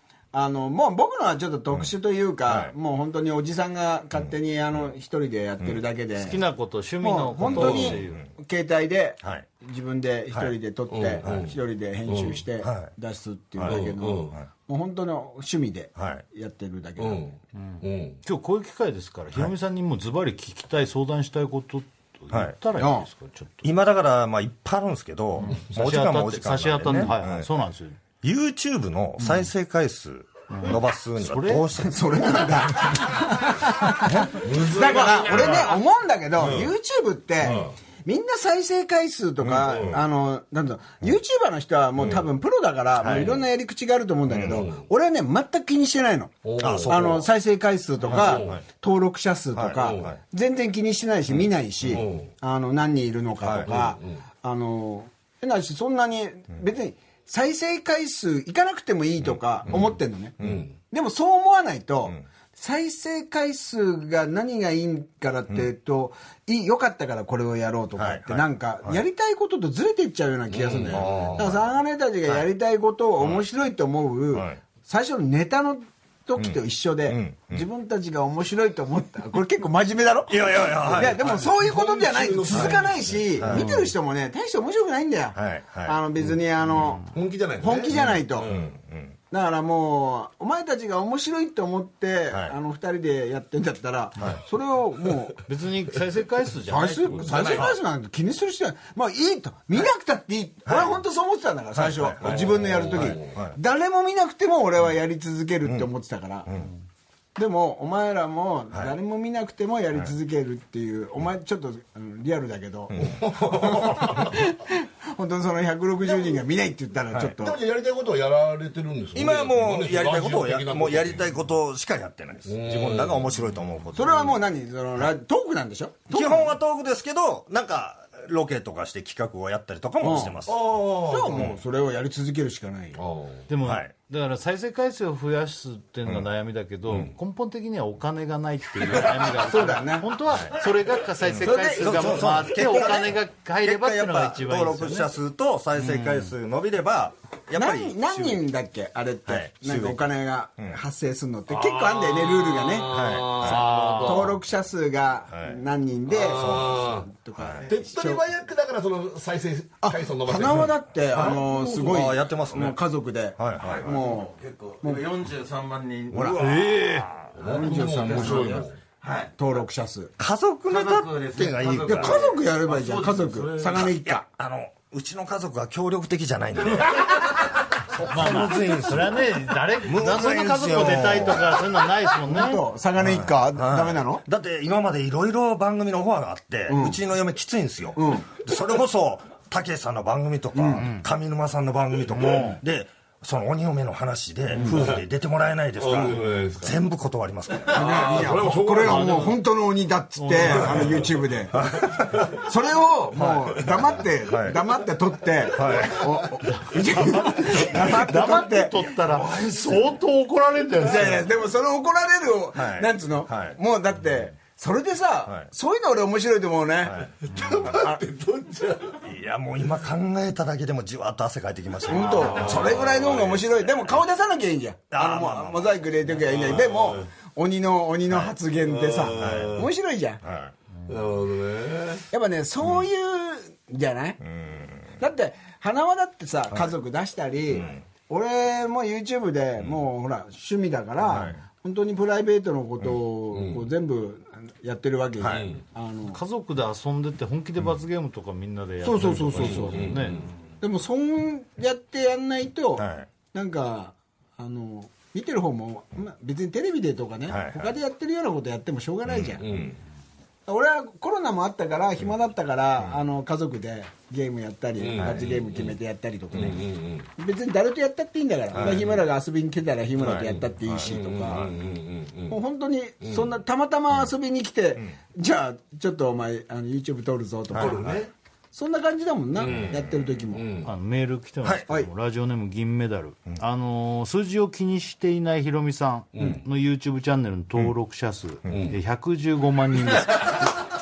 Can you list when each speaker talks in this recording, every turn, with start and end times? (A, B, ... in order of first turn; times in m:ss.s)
0:00.3-0:06.4 A
0:02.4-0:02.7 B
0:06.2-0:08.2 C
0:07.0-0:17.3 A
0:07.6-0:08.0 D
0:07.7-0:08.2 B
0:09.2-0:09.5 B
0:10.9-0:11.5 D
0:11.2-0:11.5 B
0:12.1-0:12.4 D
0:12.6-0:12.9 B
0:13.6-0:14.4 B
0:13.7-0:14.3 D
0:16.0-0:16.2 B
0:17.0-0:18.2 D
0:17.7-0:23.7 C
0:22.8-0:23.1 A
0:23.6-0:27.5 B
0:25.4-0:28.0 C
0:28.2-0:32.2 B
0:30.5-0:31.7 C
0:31.8-1:28.6 A
0:34.3-0:35.8 D
0:36.4-0:36.7 D
0:37.4-0:37.7 D
0:39.6-0:40.0 D
0:42.0-0:42.2 D
0:43.0-0:43.4 B
0:44.3-0:44.7 B
0:44.5-0:44.8 D
0:46.4-0:47.2 D
0:46.6-0:47.2 B
0:48.1-0:48.6 D
0:48.1-0:48.6 B
0:49.6-0:50.2 B
0:49.8-0:50.1 D
0:51.9-0:52.3 D
0:53.4-0:53.7 B
0:53.7-0:54.2 D
1:00.4-1:00.6 B
1:00.4-1:00.7 D
1:08.0-1:09.0 B
1:10.5-1:11.5 D
1:10.9-1:11.6 B
1:14.3-1:14.6 B
1:16.4-1:17.6 B
1:20.3-1:21.4 B
1:20.8-1:23.7 D
1:22.5-1:22.8 B
1:23.4-1:23.7 B
1:25.4-1:26.0 B
1:27.1-1:28.7 D
1:27.9-1:29.2 B
1:29.3-1:35.4 A
1:35.5-1:37.4 C
1:36.6-1:46.5 A
1:37.1-1:37.8 D
1:40.7-1:41.0 B
1:41.8-1:43.6 B
1:42.2-1:43.4 D
1:47.4-1:57.6 A
1:53.0-1:54.4 D
1:57.2-2:01.3 D
1:59.2-2:04.4 B
2:02.5-2:03.3 D
2:03.9-2:06.6 A
2:06.1-2:10.6 B
2:10.0-2:13.0 A
2:10.5-2:11.5 D
2:11.3-2:11.6 B
2:13.0-2:13.5 D
2:13.5-2:25.2 C
2:13.6-2:13.9 B
2:19.0-2:20.1 A
2:20.3-2:20.6 B
2:21.2-2:28.4 B
2:21.4-2:22.5 A
2:25.8-2:26.3 C
2:27.6-2:38.2 A
2:29.3-2:30.0 B
2:31.5-2:34.4 D
2:32.9-2:33.6 B
2:33.4-2:34.4 C
2:36.1-2:37.1 D
2:36.3-2:36.8 B
2:37.4-2:37.7 B
2:37.7-2:41.9 D
2:40.2-2:45.1 A
2:41.1-2:42.8 B
2:43.4-2:43.9 B
2:43.7-2:46.6 E
2:46.1-2:47.4 B
2:46.4-2:47.1 C
2:47.4-2:48.8 D
2:47.4-2:48.6 A
2:47.5-2:49.4 E
2:49.4-2:50.1 A
2:50.2-2:52.2 B
2:50.7-2:53.9 E
2:51.8-2:54.2 A
2:53.8-2:57.4 B
2:57.9-3:01.7 B
2:58.1-3:02.6 C
3:02.2-3:04.2 A
3:03.0-3:17.9 B
3:06.7-3:07.0 A
3:08.0-3:08.3 A
3:10.6-3:10.9 A
3:10.8-3:11.0 C
3:12.3-3:12.6 C
3:14.6-3:14.9 A
3:14.6-3:15.0 D
3:15.8-3:16.7 D
3:17.7-3:19.4 D
3:17.7-3:28.9 A
3:20.2-3:20.8 C
3:20.6-3:21.0 D
3:21.5-3:22.3 B
3:23.2-3:23.6 B
3:24.3-3:24.6 B
3:25.5-3:26.3 B
3:26.6-3:31.3 C
3:29.0-3:29.9 B
3:30.8-3:37.1 A
3:32.6-3:33.6 B
3:37.2-3:39.0 D
3:37.7-3:38.0 A
3:39.0-3:44.0 B
3:41.9-3:50.2 A
3:42.0-3:42.8 D
3:44.9-3:45.8 B
3:46.2-3:47.1 D
3:48.1-3:48.4 B
3:48.6-3:49.7 D
3:49.2-3:49.7 B
3:50.2-3:50.5 B
3:50.9-3:52.0 D
3:52.1-3:54.2 A
3:54.2-3:55.0 B
3:55.0-4:06.2 A
4:01.1-4:01.4 B
4:03.3-4:03.6 D
4:05.2-4:05.5 B
4:05.3-4:05.6 D
4:06.1-4:10.2 C
4:08.8-4:10.0 A
4:09.4-4:10.3 D
4:10.6-4:19.4 A
4:12.8-4:13.1 B
4:17.3-4:17.7 B
4:19.1-4:19.6 B
4:19.4-4:19.8 D
4:20.5-4:31.6 A
4:24.8-4:25.8 D
4:25.0-4:25.3 B
4:26.3-4:27.1 D
4:28.5-4:29.0 D
4:30.0-4:31.0 B
4:30.8-4:32.4 D
4:32.3-4:38.0 A
4:37.5-4:38.0 B
4:37.5-4:38.1 D
4:38.5-4:40.4 A
4:39.4-4:40.7 D
4:39.5-4:39.7 B
4:40.6-4:50.4 C
4:48.5-4:48.8 D